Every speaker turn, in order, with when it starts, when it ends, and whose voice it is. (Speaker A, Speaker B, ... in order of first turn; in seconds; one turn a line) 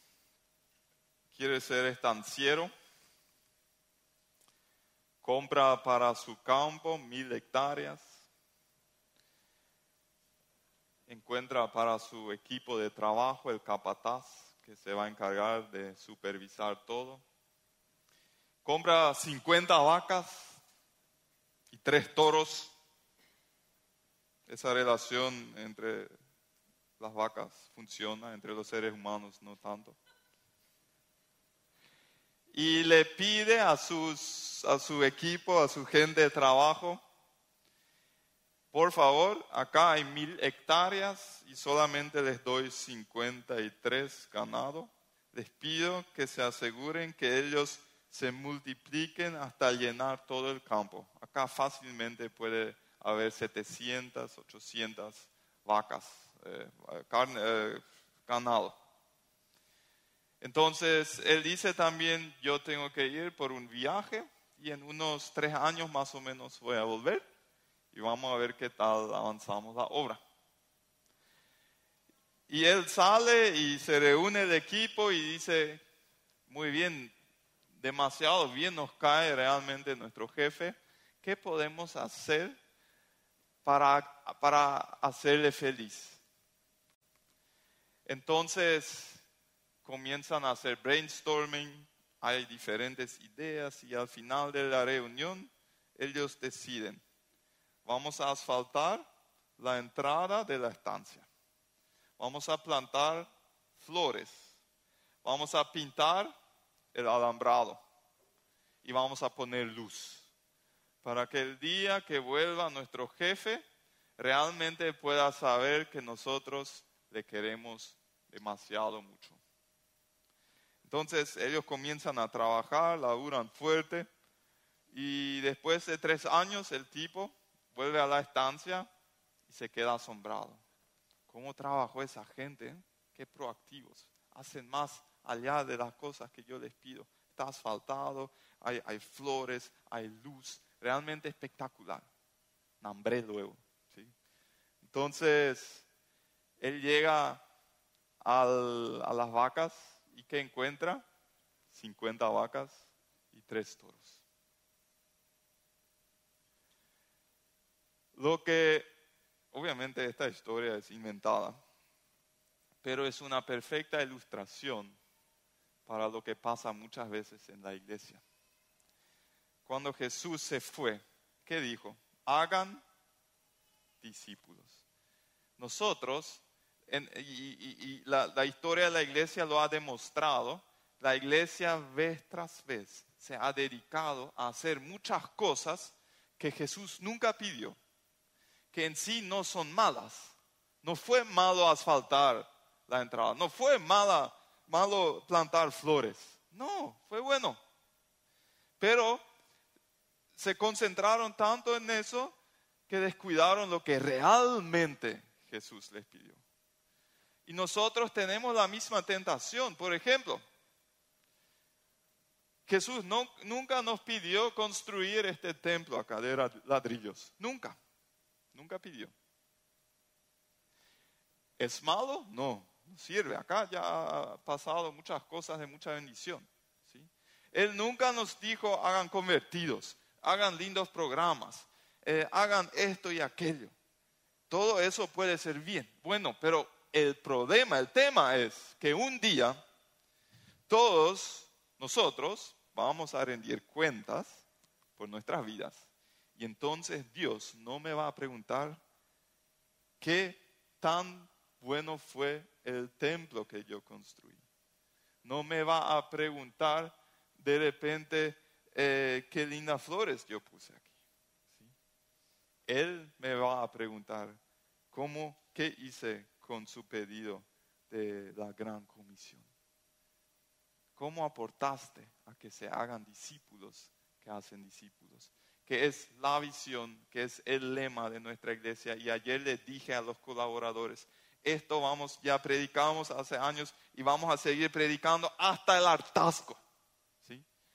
Speaker A: 1.3-2.7
Speaker A: 5.2-8.1
Speaker A: 11.1-17.2
Speaker A: 18.6-20.6
Speaker A: 21.7-22.7
Speaker A: 24.5-26.1
Speaker A: 27.0-30.0
Speaker A: 32.5-37.0
Speaker A: 38.7-58.8
Speaker A: 60.4-67.2
Speaker A: 67.9-70.2
Speaker A: 72.5-75.8
Speaker A: 76.5-77.1
Speaker A: 77.8-82.5
Speaker A: 83.6-86.2
Speaker A: 88.0-89.2
Speaker A: 89.8-97.0
Speaker A: 97.8-99.0
Speaker A: 99.6-101.2
Speaker A: 102.2-104.5
Speaker A: 105.2-106.3
Speaker A: 106.9-107.8
Speaker A: 108.8-110.3
Speaker A: 111.0-113.6
Speaker A: 114.2-119.4
Speaker A: 120.8-124.1
Speaker A: 124.9-128.9
Speaker A: 129.5-130.6
Speaker A: 131.3-142.1
Speaker A: 142.8-144.1
Speaker A: 144.8-145.8
Speaker A: 146.6-147.4
Speaker A: 148.2-151.0
Speaker A: 151.7-154.2
Speaker A: 158.1-158.9
Speaker A: 159.5-161.6
Speaker A: 162.8-164.9
Speaker A: 165.8-168.2
Speaker A: 169.6-172.8
Speaker A: 174.0-174.8
Speaker A: 175.6-187.8
Speaker A: 188.7-197.6
Speaker A: 198.8-199.2
Speaker A: 200.3-202.3
Speaker A: 202.9-206.4
Speaker A: 207.4-210.4
Speaker A: 212.7-217.8
Speaker A: 218.5-219.1
Speaker A: 221.6-233.7
Speaker A: 234.5-239.6
Speaker A: 240.7-244.4
Speaker A: 245.0-245.8
Speaker A: 246.3-248.8
Speaker A: 250.0-254.4
Speaker A: 255.2-260.9
Speaker A: 262.7-264.4
Speaker A: 264.9-269.4
Speaker A: 270.9-286.6